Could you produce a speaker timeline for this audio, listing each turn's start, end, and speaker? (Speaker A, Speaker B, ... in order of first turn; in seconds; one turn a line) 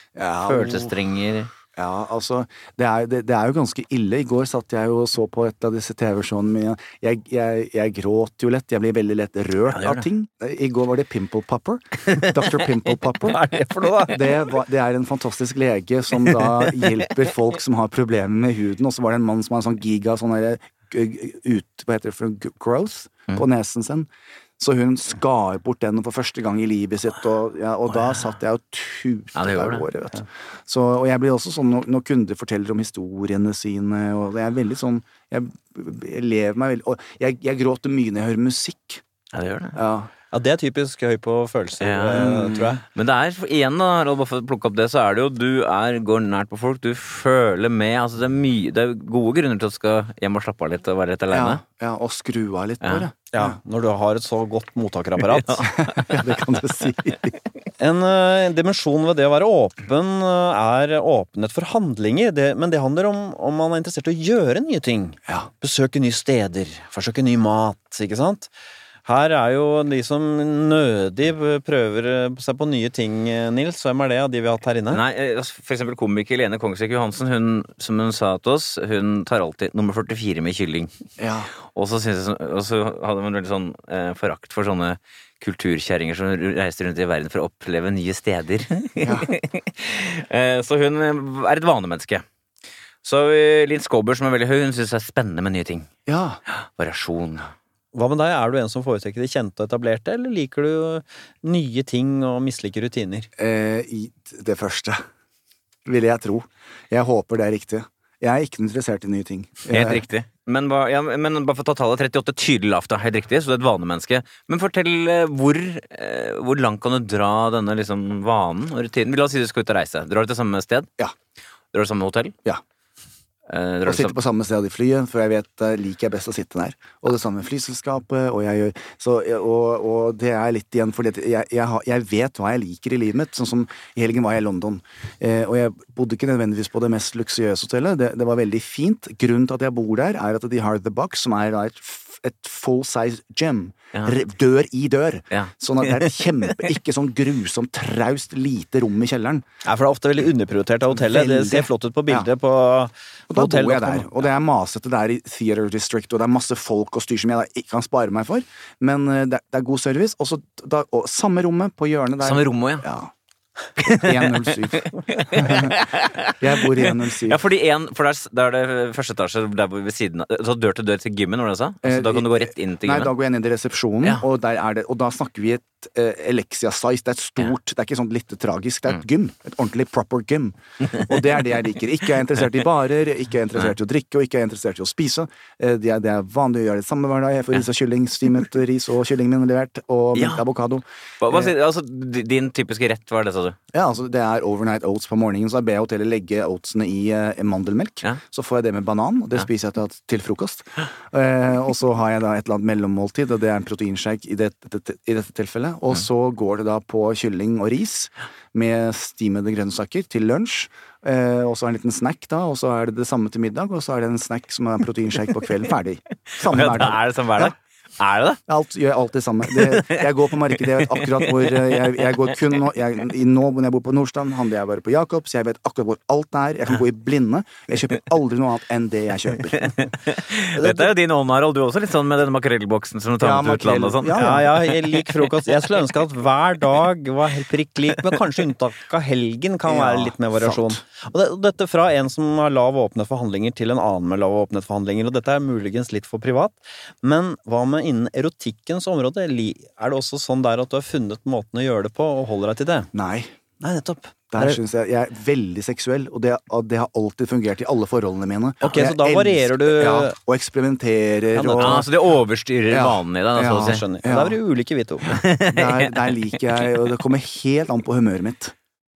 Speaker A: 0.1-0.9
Speaker B: 0.4-1.5
Speaker A: 1.8-13.4
Speaker B: 9.7-10.0
Speaker C: 13.2-14.2
Speaker A: 14.1-39.0
Speaker B: 16.5-16.9
Speaker B: 29.4-29.9
Speaker B: 39.3-39.8
Speaker A: 39.8-40.1
Speaker C: 40.3-42.8
Speaker B: 41.8-51.6
Speaker A: 42.1-42.7
Speaker A: 51.3-53.6
Speaker B: 52.8-53.1
Speaker C: 53.3-55.7
Speaker B: 55.2-56.3
Speaker A: 55.7-57.4
Speaker C: 57.8-68.5
Speaker C: 69.0-75.0
Speaker B: 74.9-81.0
Speaker A: 81.2-81.5
Speaker B: 81.6-92.2
Speaker A: 89.0-89.3
Speaker B: 93.0-95.9
Speaker A: 96.1-96.4
Speaker B: 96.5-97.5
Speaker C: 97.9-103.3
Speaker A: 103.4-105.0
Speaker A: 105.8-110.0
Speaker B: 109.7-120.9
Speaker B: 121.7-122.3
Speaker B: 123.5-124.1
Speaker A: 123.8-149.4
Speaker B: 145.3-146.7
Speaker C: 149.6-154.1
Speaker A: 150.9-152.3
Speaker A: 153.3-163.1
Speaker B: 162.2-162.8
Speaker A: 163.8-167.4
Speaker B: 163.8-173.1
Speaker A: 171.8-191.5
Speaker B: 190.1-190.4
Speaker B: 191.2-193.6
Speaker A: 193.7-217.5
Speaker B: 216.4-218.4
Speaker A: 218.5-229.7
Speaker B: 219.6-220.1
Speaker B: 220.7-222.2
Speaker B: 229.5-235.3
Speaker C: 230.5-230.9
Speaker A: 233.2-234.6
Speaker C: 234.1-252.9
Speaker A: 239.6-240.8
Speaker A: 252.9-253.3
Speaker C: 253.6-254.6
Speaker A: 254.3-261.9
Speaker C: 258.6-260.2
Speaker C: 261.3-261.8
Speaker B: 261.5-263.9
Speaker A: 262.7-264.4
Speaker C: 263.6-265.2
Speaker A: 265.0-268.5
Speaker B: 265.1-266.8